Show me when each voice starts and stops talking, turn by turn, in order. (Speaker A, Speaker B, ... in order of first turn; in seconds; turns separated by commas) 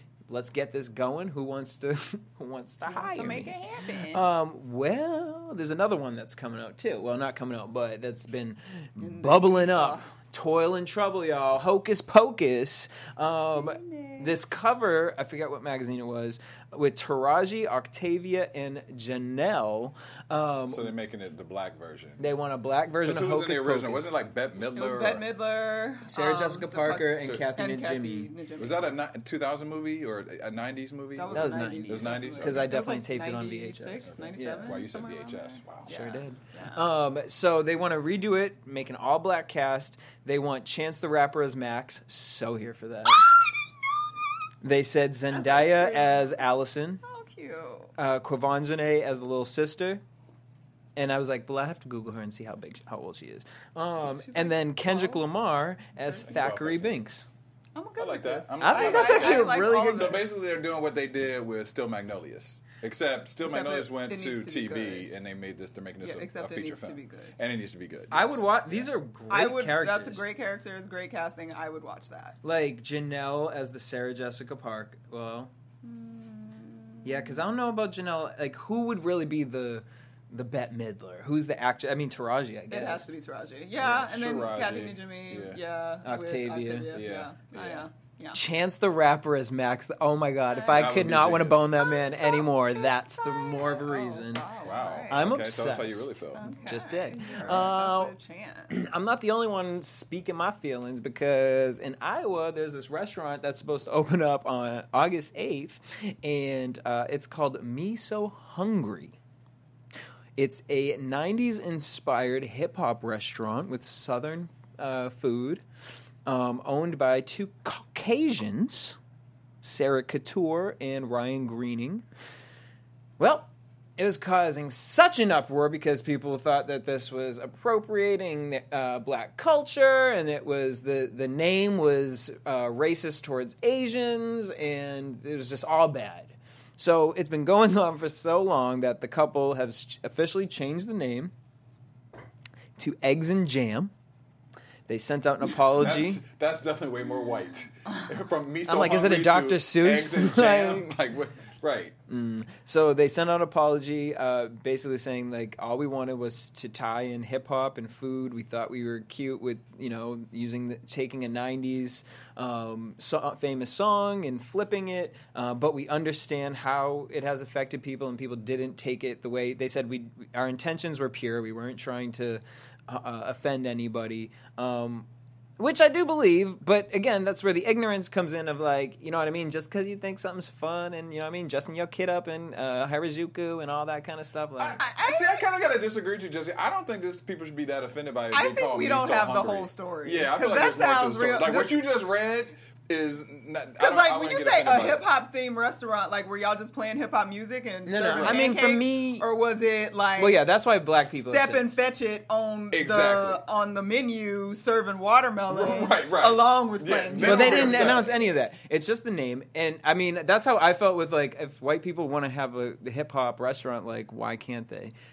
Speaker A: 0.3-20.9, Speaker B: 2.9-4.2, Speaker B: 9.0-10.1, Speaker B: 13.5-14.4, Speaker C: 20.7-22.2, Speaker A: 22.2-24.1, Speaker C: 23.0-25.2, Speaker B: 24.7-29.0, Speaker A: 26.1-28.3, Speaker C: 27.2-27.5, Speaker C: 28.6-32.7, Speaker B: 31.1-36.9, Speaker A: 31.3-34.8, Speaker C: 34.0-35.9, Speaker A: 35.9-43.2, Speaker A: 44.6-47.0, Speaker B: 45.3-46.4, Speaker B: 47.0-47.9, Speaker A: 48.0-50.0, Speaker A: 51.0-57.3, Speaker B: 54.0-55.3, Speaker B: 56.1-56.5, Speaker C: 56.1-57.0, Speaker B: 57.7-60.3, Speaker C: 58.0-68.9, Speaker A: 58.6-60.2, Speaker B: 63.4-65.1, Speaker B: 66.0-67.3, Speaker A: 68.1-70.2, Speaker B: 69.3-72.4, Speaker A: 72.4-75.5, Speaker B: 75.8-77.4, Speaker A: 77.0-83.1, Speaker B: 82.7-88.4, Speaker C: 83.8-85.6, Speaker A: 86.0-87.0, Speaker C: 86.9-87.9, Speaker A: 88.3-94.5, Speaker B: 90.5-91.1, Speaker C: 90.7-91.7, Speaker B: 91.7-95.3, Speaker C: 94.6-96.5, Speaker A: 95.1-98.1, Speaker B: 96.3-98.7, Speaker C: 97.4-97.7, Speaker A: 98.7-109.2, Speaker A: 110.4-115.6, Speaker A: 116.2-119.0, Speaker A: 119.6-122.0, Speaker A: 123.2-141.3, Speaker A: 142.8-143.9, Speaker A: 144.9-146.2, Speaker C: 145.6-151.9, Speaker A: 148.7-150.9, Speaker A: 152.1-175.1, Speaker A: 175.6-184.8, Speaker B: 184.8-185.5, Speaker C: 185.0-195.1, Speaker B: 188.3-191.8, Speaker B: 193.8-200.4, Speaker A: 197.8-199.3, Speaker C: 198.1-198.5, Speaker A: 200.2-201.6, Speaker B: 201.1-208.2, Speaker C: 202.7-203.4, Speaker C: 205.5-208.1, Speaker A: 207.2-214.9